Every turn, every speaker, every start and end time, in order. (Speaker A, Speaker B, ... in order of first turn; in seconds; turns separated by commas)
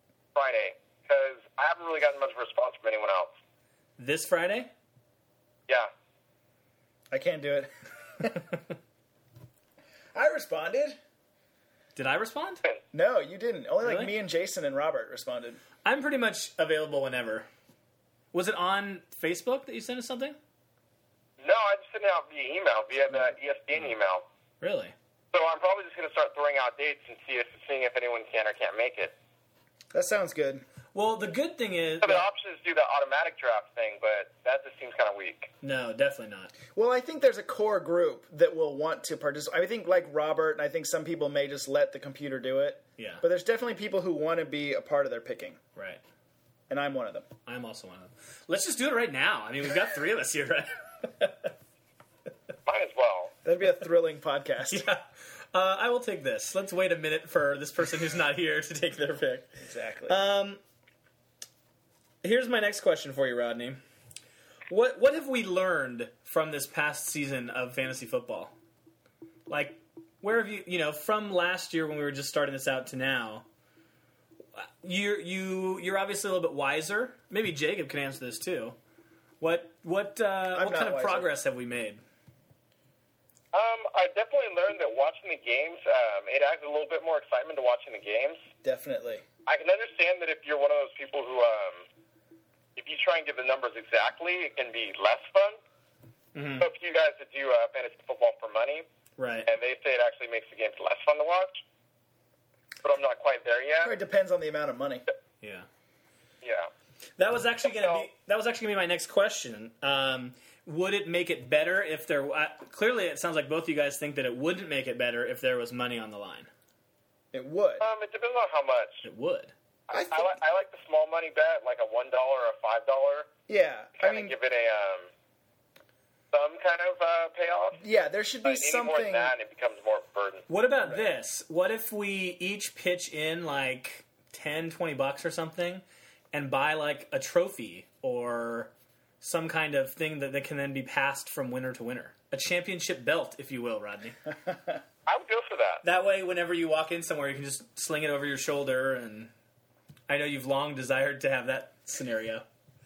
Speaker A: 0.3-3.3, Speaker B: 4.0-4.7, Speaker C: 7.1-8.5, Speaker C: 10.1-11.0, Speaker B: 11.9-12.6, Speaker C: 12.9-15.6, Speaker B: 13.8-14.1, Speaker B: 15.8-17.5, Speaker B: 18.3-20.4, Speaker A: 21.4-24.2, Speaker B: 24.6-24.9, Speaker A: 25.3-29.1, Speaker C: 29.9-30.6, Speaker B: 30.9-32.2, Speaker A: 32.0-35.5, Speaker B: 35.6-36.5, Speaker C: 36.7-45.6, Speaker B: 43.0-43.2, Speaker B: 45.8-46.0, Speaker C: 46.7-47.3, Speaker B: 47.5-51.5, Speaker A: 52.6-53.3, Speaker C: 53.4-54.9, Speaker B: 54.7-60.6, Speaker C: 59.6-60.2, Speaker B: 62.2-63.8, Speaker B: 64.7-68.5, Speaker B: 69.5-73.5, Speaker B: 74.5-78.8, Speaker B: 79.4-82.0, Speaker C: 80.5-81.3, Speaker A: 83.5-88.4, Speaker C: 88.6-89.2, Speaker A: 89.5-91.8, Speaker A: 92.8-95.6, Speaker B: 96.3-96.7, Speaker A: 96.6-98.8, Speaker B: 99.2-99.5, Speaker A: 99.5-101.6, Speaker A: 102.8-103.9, Speaker C: 103.8-105.0, Speaker B: 105.4-105.7, Speaker A: 106.4-106.7, Speaker B: 107.2-116.5, Speaker A: 107.7-108.0, Speaker C: 117.3-117.8, Speaker A: 117.8-119.0, Speaker B: 119.0-119.5, Speaker A: 119.9-123.3, Speaker C: 119.9-120.3, Speaker C: 123.5-124.3, Speaker A: 124.0-125.1, Speaker A: 126.3-127.8, Speaker C: 127.8-129.3, Speaker A: 128.4-130.5, Speaker B: 130.5-144.2, Speaker A: 145.1-145.8, Speaker B: 145.8-149.3, Speaker B: 150.1-152.4